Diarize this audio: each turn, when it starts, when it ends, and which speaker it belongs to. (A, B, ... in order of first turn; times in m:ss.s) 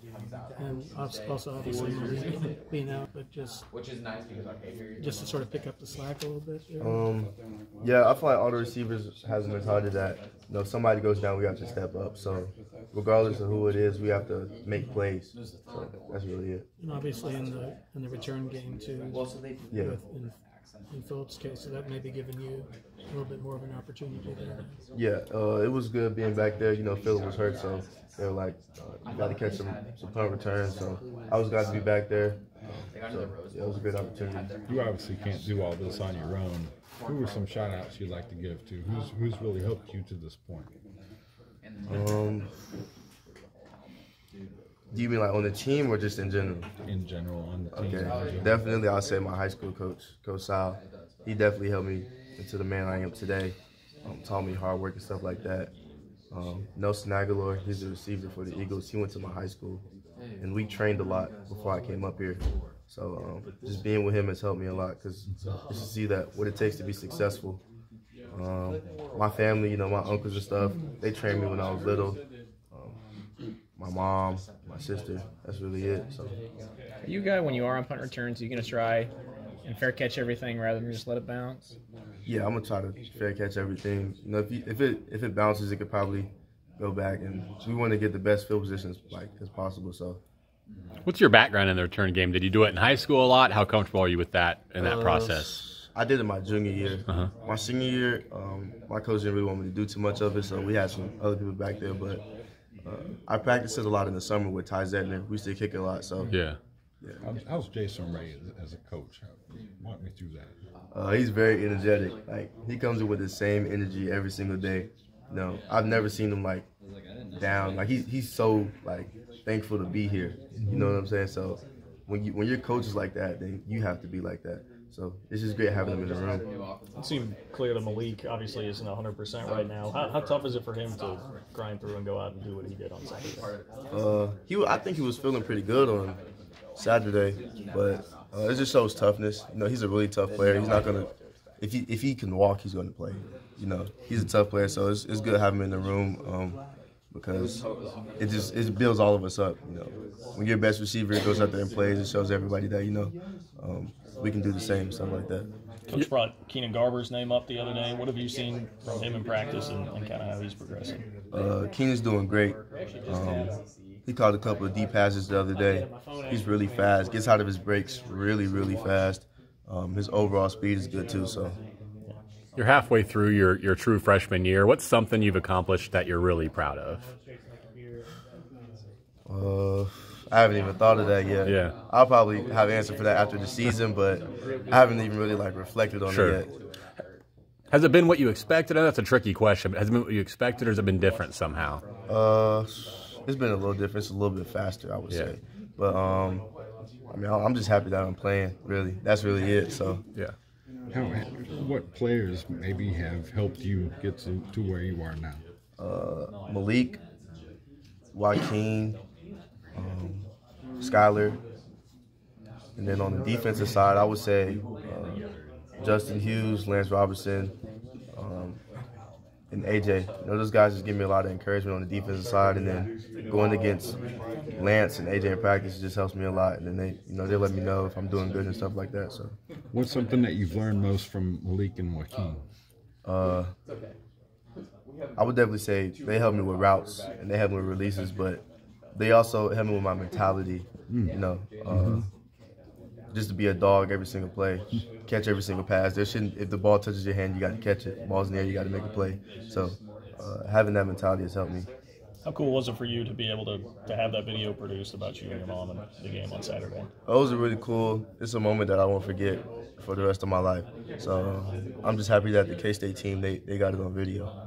0:00.6-0:03.6 A
0:05.0-0:07.0 A
0:06.8-0:16.6 B
0:16.8-0:20.4 A
0:19.7-0:20.0 B
0:20.9-0:24.8 A
0:24.9-0:34.5 B
0:34.7-0:40.7 C
0:41.9-0:42.5 B
0:44.9-0:46.7 B
0:46.8-0:48.6 C
0:47.7-0:55.7 B
0:56.3-0:59.8 B
1:00.4-1:07.6 B
1:08.3-1:12.2 B
1:12.7-1:13.0 B
1:13.8-1:16.4 B
1:17.0-1:19.1 D
1:19.6-1:21.8 D
1:22.2-1:30.2 B
1:31.0-1:35.6 E
1:34.8-1:42.2 B
1:42.8-1:46.4 B
1:46.3-1:46.6 E
1:47.2-1:50.5 C
1:50.9-1:56.7 B
1:57.4-2:06.4 B
2:00.6-2:00.9 C
2:07.0-2:13.5 F
2:13.9-2:16.2 B
2:16.8-2:26.6 B
2:27.1-2:27.6 B
2:28.2-2:35.5 B
2:35.9-2:41.0 F
2:41.3-2:51.6 B
2:52.6-2:57.0 E
2:59.3-3:06.5 B
3:01.4-3:01.7 E
3:06.1-3:06.4 E
3:07.7-3:11.8 E
3:12.1-3:16.4 B
3:17.1-3:20.0 B
3:20.9-3:25.4 C
3:25.8-3:27.0 B
3:28.1-3:29.0 B
3:29.7-3:30.3 B
3:30.8-3:31.4 B
3:32.8-3:35.2 B
3:35.8-3:37.5 B
3:38.1-3:38.6 B
3:39.5-3:44.0 B
3:44.5-3:49.3 B
3:49.7-3:52.4 C
3:53.0-3:53.5 B
3:55.2-3:58.4 B
3:58.9-4:02.1 B
4:00.9-4:01.2 C
4:01.7-4:02.0 C
4:03.1-4:11.7 B
4:12.2-4:16.9 F
4:17.0-4:24.3 B